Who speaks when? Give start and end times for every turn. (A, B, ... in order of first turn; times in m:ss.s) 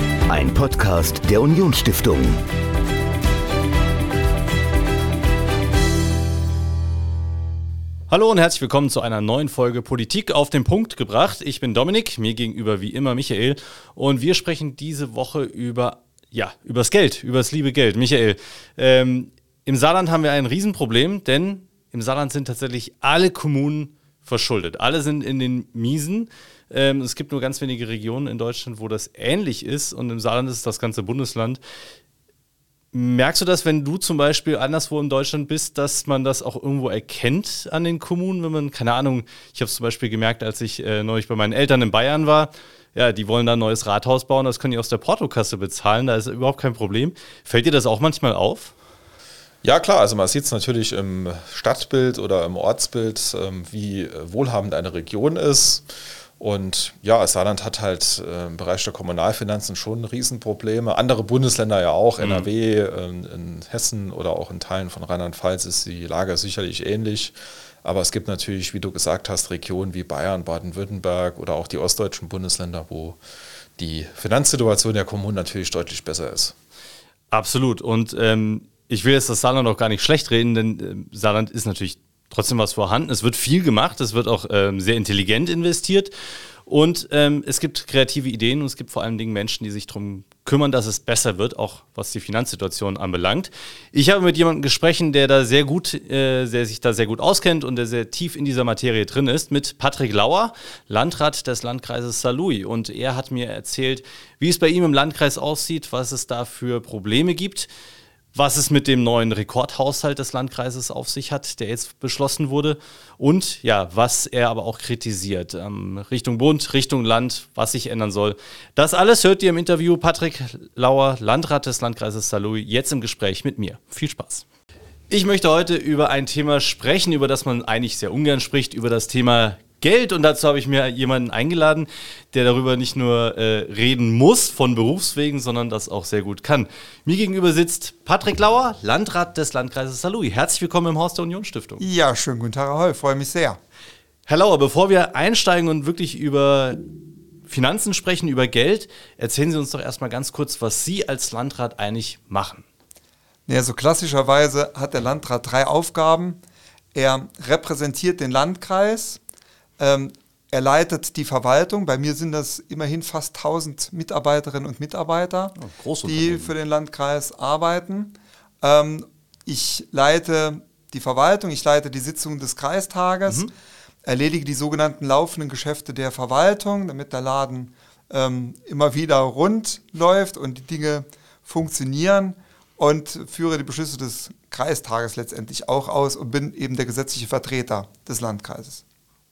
0:00.3-0:02.4 A
0:08.1-0:31.6 B
0:32.9-0:48.7 B
0:49.6-0:55.8 C
0:56.4-1:13.2 C
1:02.2-1:02.5 B
1:13.8-1:16.5 C
1:17.3-1:26.1 B
1:26.6-1:47.7 B
1:48.3-2:04.4 B
2:05.1-2:21.8 B
2:21.8-2:23.6 D
2:24.3-2:26.8 B
2:27.5-2:32.6 B
2:33.5-2:36.4 D
2:36.9-2:39.2 D
2:39.8-2:53.5 D
2:45.6-2:46.5 B
2:54.0-3:08.8 D